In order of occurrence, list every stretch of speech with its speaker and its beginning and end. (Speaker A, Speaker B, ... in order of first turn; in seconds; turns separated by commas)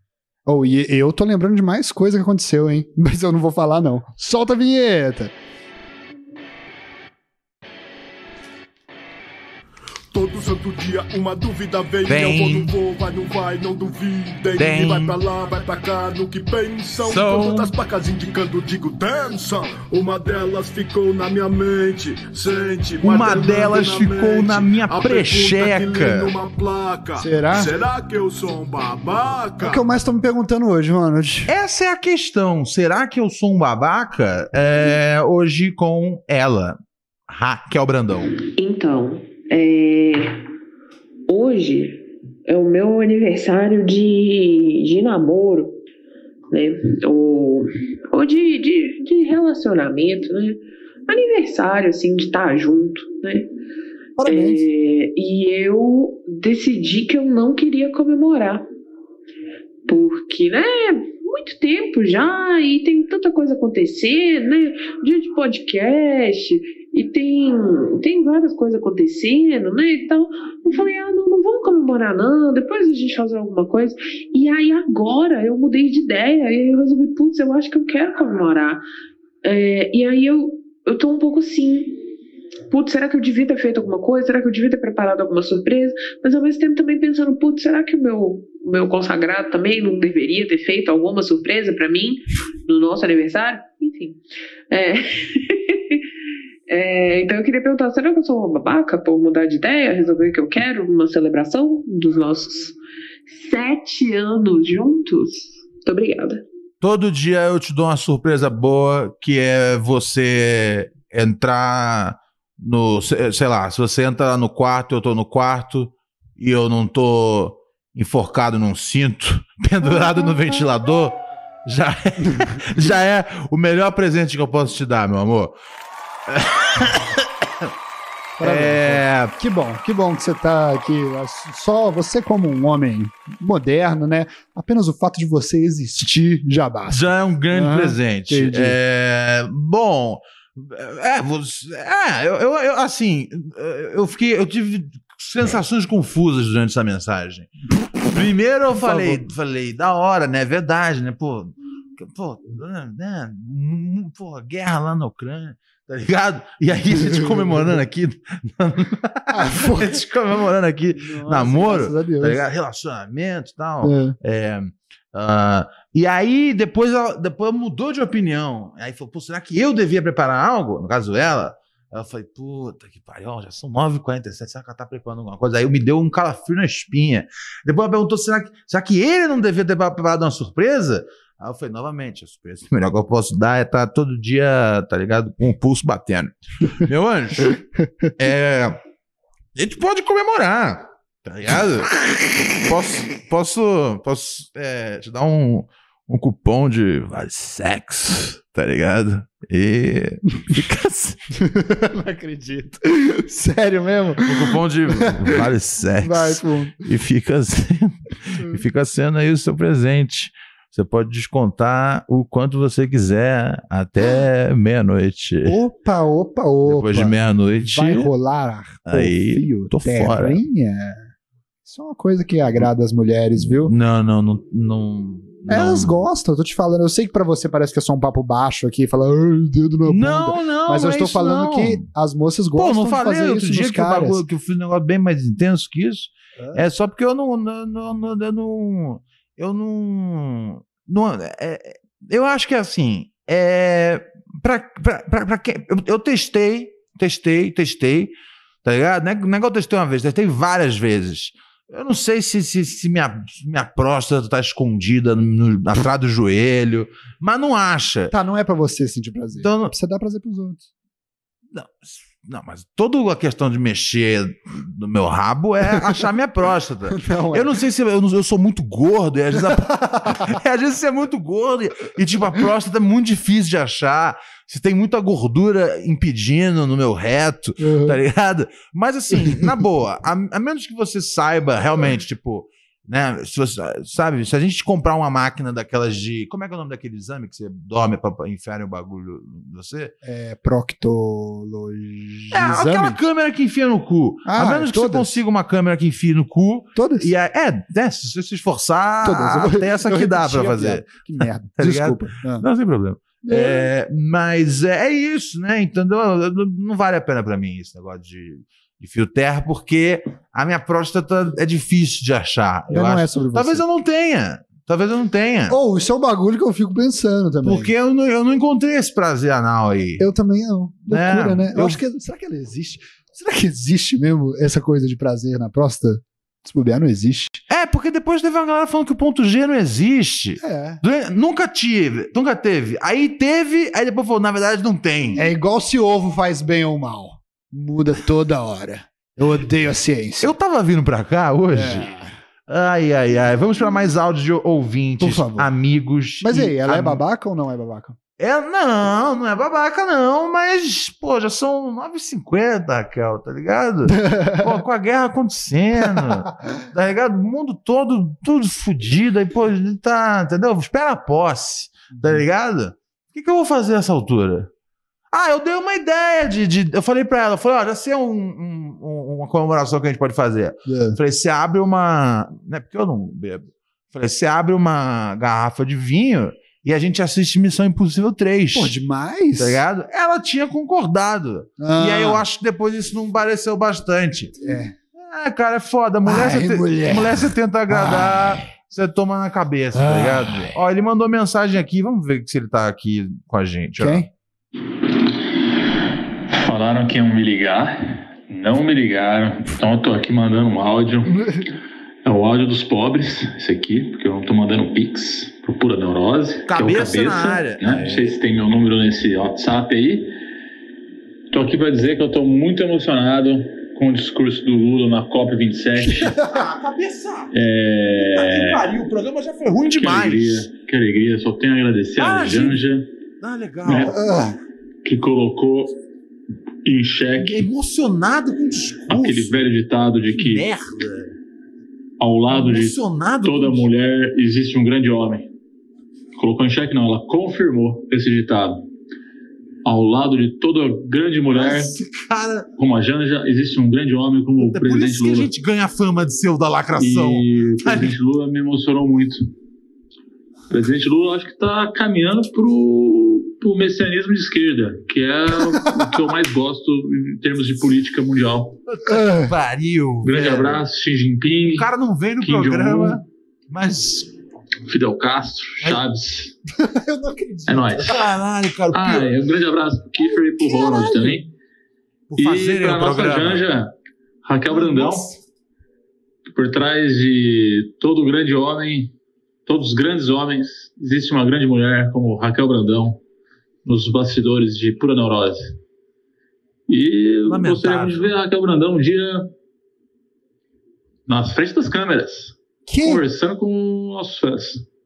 Speaker A: 0.5-5.3, Speaker B: 10.1-29.8, Speaker C: 12.1-12.7, Speaker C: 14.6-15.2, Speaker C: 17.0-17.7, Speaker C: 23.0-26.3, Speaker A: 27.2-27.7, Speaker A: 29.6-31.5, Speaker C: 31.5-36.8, Speaker C: 37.3-38.3, Speaker D: 38.6-40.4, Speaker D: 41.3-45.8, Speaker D: 46.5-53.5, Speaker A: 54.2-54.6, Speaker D: 54.2-58.7, Speaker D: 59.9-78.8, Speaker D: 79.4-82.0, Speaker D: 82.7-96.0, Speaker D: 96.7-102.8, Speaker D: 103.3-106.4, Speaker C: 106.8-125.6, Speaker A: 122.2-122.6, Speaker C: 126.3-127.7, Speaker A: 128.4-138.8, Speaker C: 128.4-129.3, Speaker C: 136.9-147.5, Speaker C: 148.1-187.6, Speaker A: 148.7-149.3, Speaker A: 157.1-157.4, Speaker A: 159.3-160.0, Speaker A: 161.0-162.4, Speaker A: 163.8-164.2, Speaker C: 188.2-188.8, Speaker C: 189.6-192.0, Speaker C: 192.6-201.2, Speaker A: 201.4-205.4, Speaker C: 204.2-215.6, Speaker A: 206.0-206.8, Speaker A: 215.4-221.1, Speaker C: 216.7-218.1, Speaker C: 218.9-220.4, Speaker A: 221.7-223.7, Speaker C: 223.4-226.0, Speaker A: 225.5-234.2, Speaker C: 229.9-231.9, Speaker C: 232.6-258.1, Speaker A: 258.1-260.6, Speaker C: 259.3-259.7, Speaker C: 261.5-289.9, Speaker A: 266.9-267.5, Speaker A: 269.4-270.3, Speaker A: 277.6-278.0, Speaker A: 279.2-279.5, Speaker A: 290.0-293.0, Speaker C: 292.3-301.0, Speaker A: 294.2-295.1, Speaker A: 296.8-297.1, Speaker A: 299.0-302.5, Speaker C: 301.5-315.6, Speaker A: 303.2-303.7, Speaker A: 312.7-313.6, Speaker A: 315.5-317.7, Speaker C: 317.4-320.1, Speaker A: 320.0-327.4, Speaker C: 320.9-321.8, Speaker C: 327.5-335.3, Speaker A: 330.4-330.8, Speaker A: 335.1-340.3, Speaker C: 340.2-341.9, Speaker A: 341.5-342.1, Speaker C: 342.5-347.0, Speaker A: 345.0-345.5, Speaker A: 346.2-348.0, Speaker C: 348.2-364.5, Speaker A: 353.9-354.6, Speaker A: 355.8-356.1, Speaker A: 361.9-362.2, Speaker C: 365.1-378.8, Speaker A: 370.7-371.0, Speaker A: 378.5-379.6, Speaker C: 379.4-384.4, Speaker A: 381.6-382.3, Speaker A: 384.4-384.7, Speaker C: 385.0-394.1, Speaker A: 386.1-388.4, Speaker A: 389.7-390.5, Speaker A: 393.8-394.1, Speaker E: 396.3-401.2, Speaker E: 402.1-410.1, Speaker C: 406.5-408.1, Speaker E: 411.3-416.2, Speaker C: 416.1-417.3, Speaker E: 417.3-418.7, Speaker C: 418.0-420.5, Speaker E: 419.7-422.9, Speaker C: 422.0-422.6, Speaker C: 423.2-424.0, Speaker E: 423.6-424.0, Speaker A: 423.9-424.4, Speaker E: 424.8-425.8, Speaker E: 426.6-427.5, Speaker C: 427.1-429.5, Speaker E: 428.9-430.5, Speaker C: 430.1-431.1, Speaker E: 432.0-435.3, Speaker C: 432.3-433.7, Speaker E: 436.2-438.6, Speaker E: 439.6-441.8, Speaker C: 441.3-442.5, Speaker E: 442.6-445.3, Speaker C: 444.4-447.9, Speaker E: 446.8-449.2, Speaker E: 450.5-458.6, Speaker C: 458.7-460.6, Speaker A: 458.9-459.3, Speaker E: 460.0-463.0, Speaker C: 461.5-464.1, Speaker E: 464.7-466.4, Speaker A: 466.6-467.7, Speaker E: 467.5-468.0, Speaker C: 467.6-469.1, Speaker E: 468.7-471.3, Speaker C: 470.4-471.2, Speaker C: 472.1-473.5, Speaker E: 472.2-473.7, Speaker E: 474.2-475.1, Speaker C: 474.5-475.2, Speaker E: 476.3-478.9, Speaker E: 479.5-483.0, Speaker E: 483.6-485.6, Speaker E: 486.7-489.3, Speaker C: 487.3-488.2, Speaker E: 491.1-494.6, Speaker A: 492.7-493.1